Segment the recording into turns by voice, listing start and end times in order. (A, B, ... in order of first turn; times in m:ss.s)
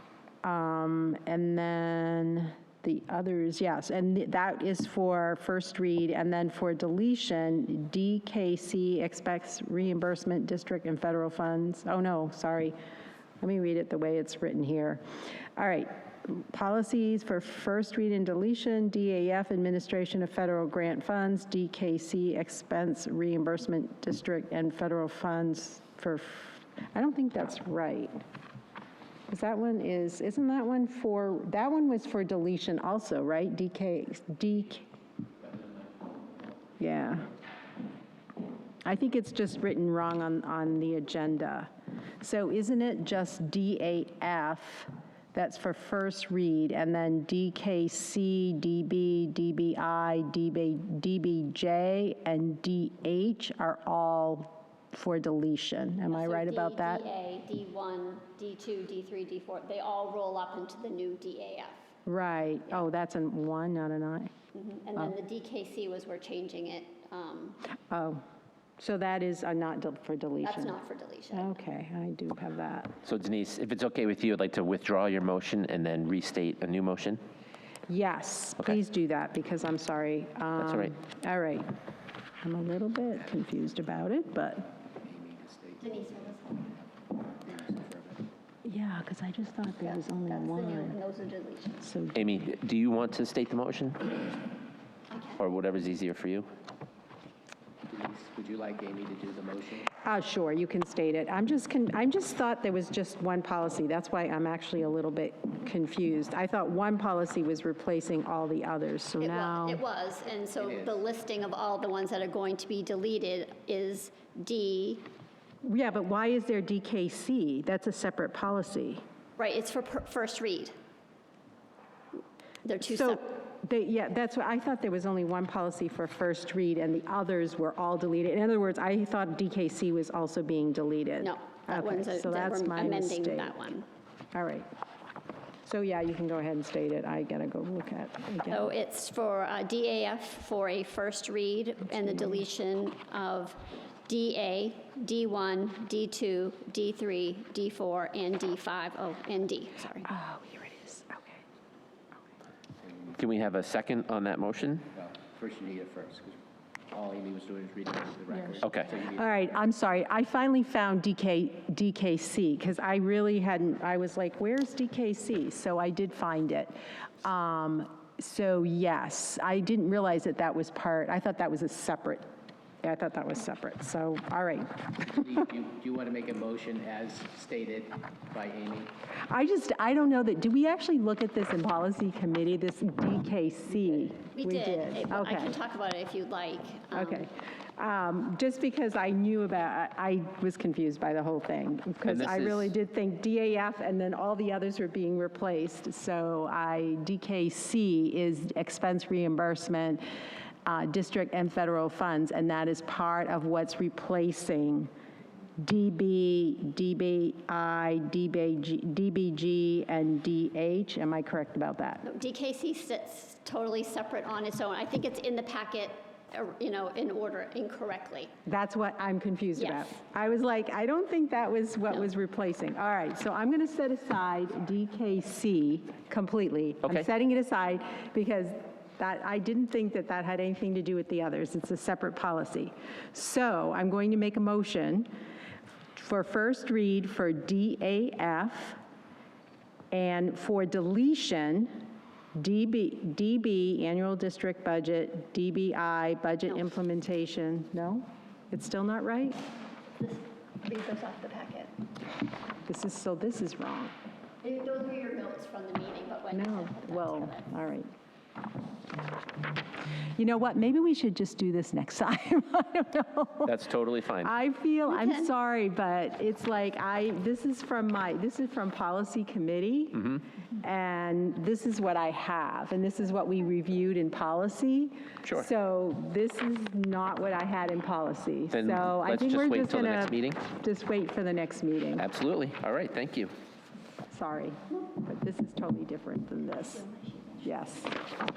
0:00.4-0:12.8 A
0:13.4-0:15.0 A
0:15.6-0:28.2 A
0:29.3-0:34.9 A
0:36.8-0:37.3 A
0:38.8-0:41.7 A
0:42.2-0:57.0 A
0:56.1-1:01.8 B
1:02.1-1:04.3 A
1:04.5-1:07.6 B
1:07.9-1:08.2 A
1:08.8-1:10.8 A
1:10.4-1:11.6 B
1:11.3-1:13.0 A
1:13.0-1:17.2 C
1:17.9-1:21.7 A
1:20.6-1:20.9 C
1:22.4-1:24.7 A
1:25.0-1:26.1 D
1:25.8-1:26.7 B
1:26.8-1:28.3 D
1:28.6-1:31.0 A
1:29.8-1:31.9 B
1:31.8-1:32.3 A
1:32.2-1:34.2 C
1:35.1-1:35.4 B
1:35.4-1:36.5 C
1:37.9-1:39.9 D
1:40.0-1:49.8 A
1:49.2-1:55.1 B
1:50.6-1:51.0 D
1:55.6-1:59.0 A
1:59.4-2:00.7 B
2:02.6-2:03.2 B
2:02.8-2:13.5 A
2:11.2-2:13.9 B
2:14.3-2:14.7 A
2:15.6-2:18.7 A
2:18.5-2:30.1 B
2:30.0-2:31.4 A
2:32.9-2:33.2 D
2:33.2-2:34.9 C
2:35.0-2:36.4 D
2:36.9-2:39.2 D
2:38.6-2:38.9 C
2:39.0-2:52.3 A
2:52.8-2:55.2 A
2:55.1-2:58.9 D
2:59.3-3:05.5 A
3:04.0-3:07.3 B
3:06.9-3:20.0 A
3:12.0-3:12.7 C
3:20.7-3:24.9 A
3:25.6-3:32.0 A
3:32.0-3:38.3 B
3:38.5-3:55.1 A
3:39.6-3:39.9 B
3:56.0-3:58.8 A
3:59.9-4:01.7 A
4:02.4-4:09.4 A
4:10.0-4:11.7 B
4:12.7-4:13.9 A
4:14.4-4:17.5 B
4:16.3-4:17.9 A
4:20.2-4:23.6 A
4:23.4-4:24.3 C
4:24.2-4:42.1 A
4:24.9-4:25.3 B
4:38.5-4:40.4 C
4:42.0-4:43.3 C
4:44.1-4:46.9 A
4:47.4-4:48.0 A